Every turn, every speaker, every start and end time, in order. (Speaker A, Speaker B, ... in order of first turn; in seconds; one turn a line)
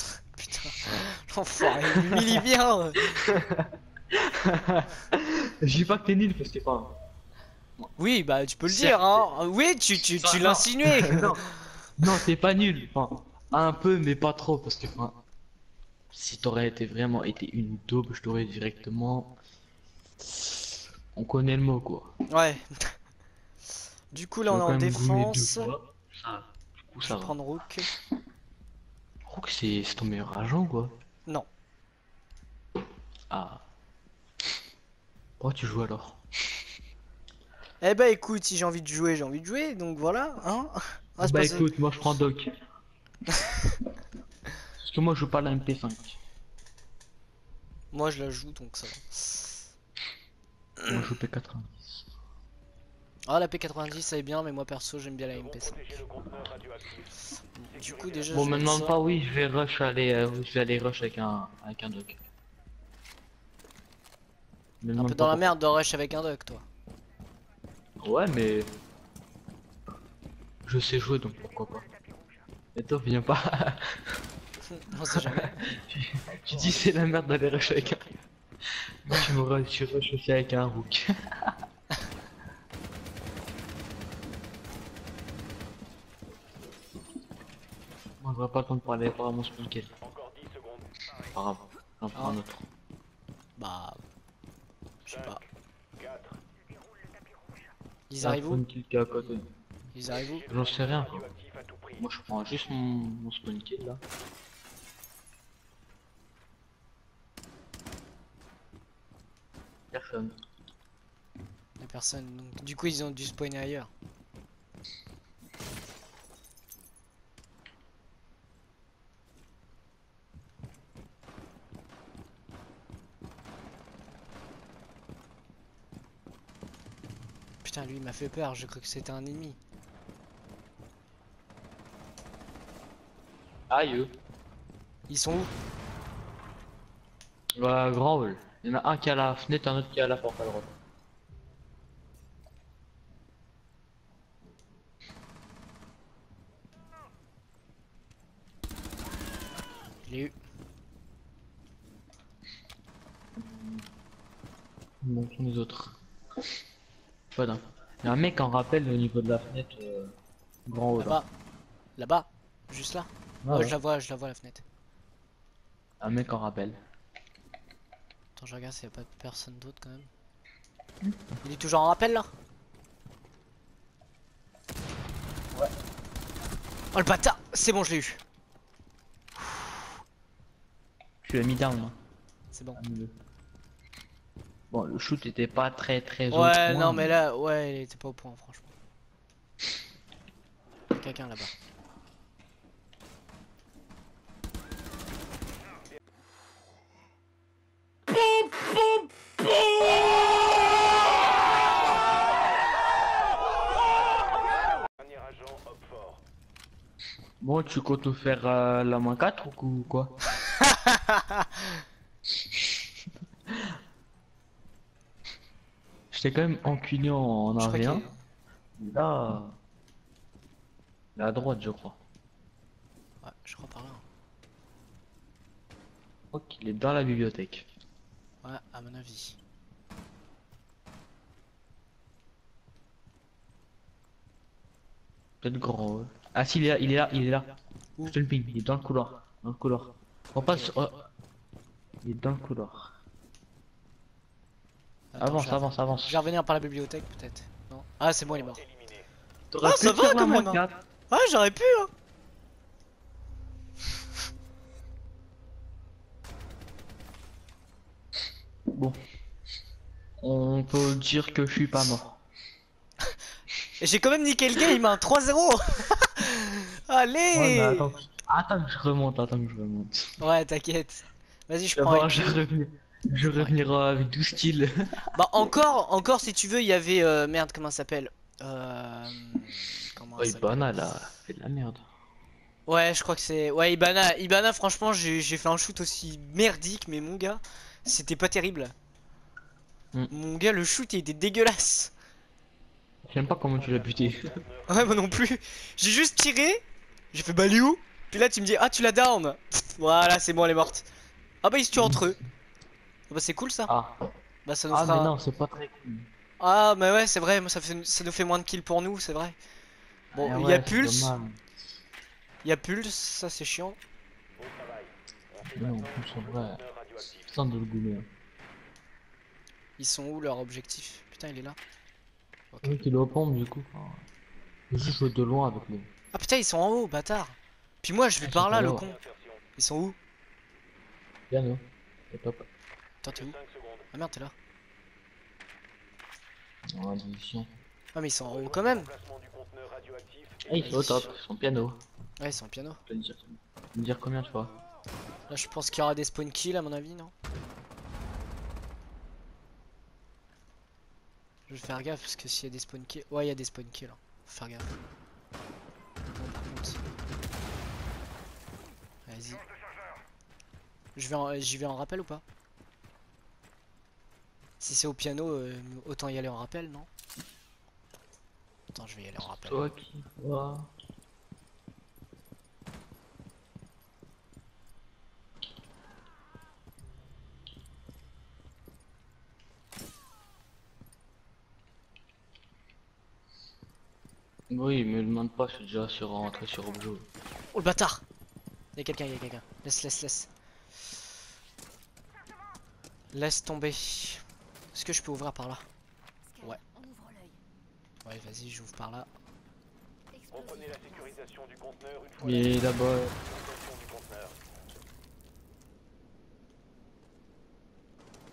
Speaker A: 0.4-3.2
Speaker B: 2.0-2.4
Speaker B: 3.1-6.9
Speaker A: 8.0-11.9
Speaker B: 8.7-9.3
Speaker B: 10.1-15.2
Speaker B: 16.1-19.3
Speaker B: 20.4-22.1
Speaker A: 22.3-22.9
Speaker A: 24.1-25.7
Speaker B: 24.5-27.4
Speaker A: 27.0-27.9
Speaker B: 29.3-30.9
Speaker B: 33.3-33.6
Speaker B: 35.4-36.2
Speaker A: 37.8-41.7
Speaker B: 41.2-42.6
Speaker B: 44.8-46.2
Speaker A: 47.9-49.6
Speaker B: 50.8-52.1
Speaker A: 53.3-56.0
Speaker C: 55.3-57.1
Speaker A: 57.6-59.0
Speaker C: 57.7-58.6
Speaker B: 58.3-62.2
Speaker B: 64.8-65.5
Speaker A: 65.0-66.7
Speaker B: 68.0-68.7
Speaker B: 70.6-71.9
Speaker B: 72.8-74.2
Speaker A: 74.7-75.6
Speaker B: 75.0-78.0
Speaker C: 76.3-78.3
Speaker B: 79.0-81.6
Speaker B: 88.2-89.9
Speaker C: 90.0-91.3
Speaker B: 91.3-92.7
Speaker A: 92.2-92.4
Speaker A: 93.6-94.0
Speaker A: 95.1-95.4
Speaker C: 95.1-95.4
Speaker C: 96.0-96.4
Speaker A: 98.1-98.6
Speaker B: 98.2-99.5
Speaker A: 99.9-100.4
Speaker C: 100.2-102.1
Speaker B: 100.5-101.3
Speaker B: 102.0-104.0
Speaker B: 109.9-110.3
Speaker A: 111.8-113.9
Speaker A: 127.6-129.6
Speaker B: 133.7-134.1
Speaker A: 135.1-135.5
Speaker B: 137.6-140.7
Speaker A: 150.1-150.3
Speaker B: 153.4-153.8
Speaker B: 155.0-156.0
Speaker B: 157.3-160.1
Speaker B: 160.7-161.2
Speaker A: 161.0-161.3
Speaker A: 162.0-164.6
Speaker B: 163.4-163.8
Speaker B: 166.0-166.8
Speaker A: 168.4-170.1
Speaker B: 171.0-171.4
Speaker A: 171.4-172.3
Speaker A: 176.9-178.2
Speaker B: 181.2-182.0
Speaker A: 182.5-182.8
Speaker B: 182.8-183.1
Speaker B: 184.7-187.2
Speaker A: 186.3-188.7
Speaker A: 190.9-191.6
Speaker C: 204.6-206.2
Speaker B: 207.4-210.2
Speaker A: 210.6-211.6
Speaker B: 212.5-212.8
Speaker B: 213.5-213.8
Speaker B: 216.1-218.1
Speaker A: 217.6-218.2
Speaker B: 218.8-219.5
Speaker B: 221.2-222.0
Speaker A: 223.2-224.0
Speaker B: 226.3-227.7
Speaker A: 228.4-229.4
Speaker B: 235.4-241.1
Speaker A: 240.4-240.7
Speaker B: 242.0-242.9
Speaker A: 245.1-248.6
Speaker B: 245.2-246.2
Speaker C: 248.3-249.1
Speaker B: 249.5-250.8
Speaker A: 249.6-251.9
Speaker B: 258.7-259.0
Speaker B: 260.2-262.2
Speaker A: 263.8-267.9
Speaker B: 267.3-270.2
Speaker A: 270.2-272.4
Speaker B: 271.8-275.1
Speaker A: 275.1-280.7
Speaker B: 280.2-281.9
Speaker A: 282.7-288.7
Speaker A: 290.1-291.9
Speaker B: 293.0-294.4
Speaker C: 293.6-295.2
Speaker A: 294.7-300.9
Speaker A: 301.4-302.2
Speaker B: 301.8-302.1
Speaker A: 303.1-303.7
Speaker B: 303.7-304.0
Speaker A: 304.4-305.2
Speaker B: 304.7-306.1
Speaker A: 306.4-309.4
Speaker B: 310.1-311.4
Speaker A: 310.1-311.1
Speaker A: 312.4-313.8
Speaker C: 314.4-317.3
Speaker B: 315.5-316.6
Speaker B: 317.3-318.1
Speaker A: 319.8-321.6
Speaker A: 322.5-322.8
Speaker B: 322.6-324.0
Speaker B: 324.7-325.9
Speaker A: 326.1-329.0
Speaker B: 328.2-328.9
Speaker C: 328.6-329.4
Speaker A: 329.6-330.0
Speaker B: 331.3-332.5
Speaker A: 333.0-333.4
Speaker C: 333.1-333.9
Speaker A: 333.9-334.3
Speaker B: 336.7-337.5
Speaker A: 337.9-338.9
Speaker C: 338.2-341.1
Speaker B: 340.5-341.8
Speaker A: 340.6-341.1
Speaker A: 342.2-342.8
Speaker B: 342.9-344.5
Speaker A: 345.3-347.1
Speaker A: 351.5-354.8
Speaker A: 356.1-356.8
Speaker A: 359.1-359.4
Speaker A: 360.9-362.2
Speaker A: 364.6-366.9
Speaker A: 368.7-369.7
Speaker B: 369.4-370.7
Speaker B: 384.5-387.1
Speaker A: 387.5-388.0
Speaker A: 388.8-390.3
Speaker A: 393.1-395.7
Speaker A: 398.1-399.1
Speaker C: 400.3-404.4
Speaker B: 402.2-403.1